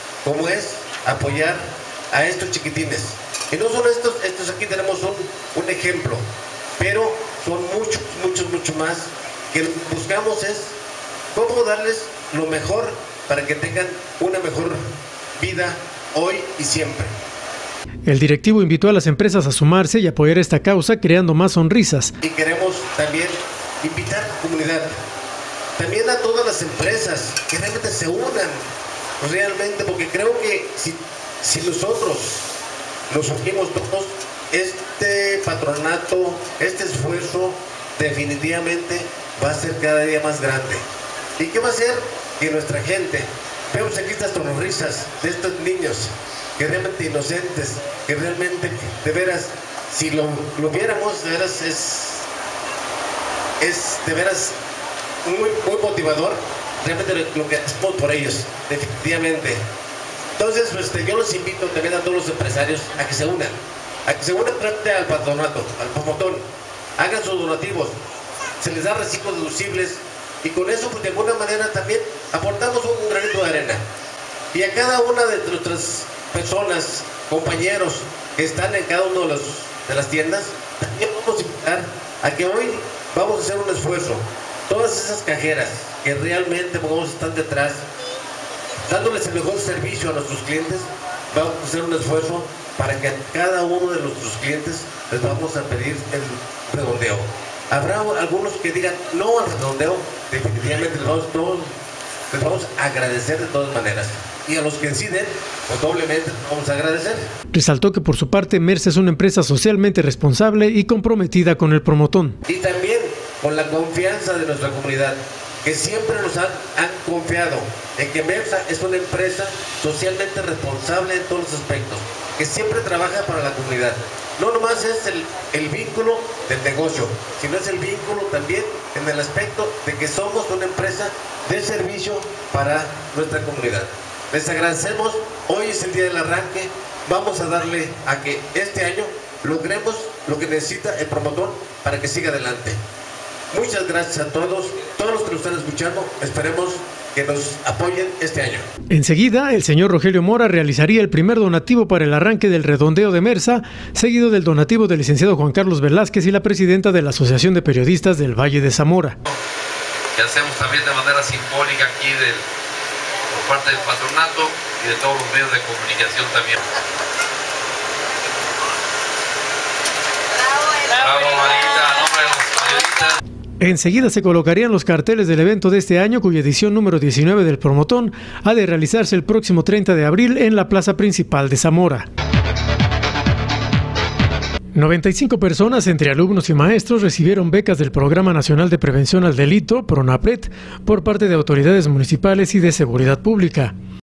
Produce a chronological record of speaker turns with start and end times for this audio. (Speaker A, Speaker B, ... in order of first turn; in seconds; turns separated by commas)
Speaker A: 0.2-6.2, Speaker A: 6.8-10.7, Speaker A: 11.3-14.8, Speaker A: 15.4-17.1, Speaker B: 18.1-22.1, Speaker A: 22.2-24.9, Speaker A: 25.8-28.7, Speaker A: 29.2-32.4, Speaker A: 33.1-40.8, Speaker A: 41.4-52.2, Speaker A: 53.6-54.5, Speaker A: 55.2-59.6, Speaker A: 60.4-63.5, Speaker A: 64.0-66.5, Speaker A: 67.0-67.9, Speaker A: 68.6-73.8, Speaker A: 74.5-87.8, Speaker A: 88.8-101.7, Speaker A: 102.3-107.2, Speaker B: 107.5-112.3, Speaker A: 112.5-142.8, Speaker A: 143.5-148.6, Speaker B: 148.9-159.2, Speaker C: 160.2-162.4, Speaker C: 163.3-166.6, Speaker C: 170.9-173.2, Speaker B: 173.6-182.1, Speaker B: 184.7-193.7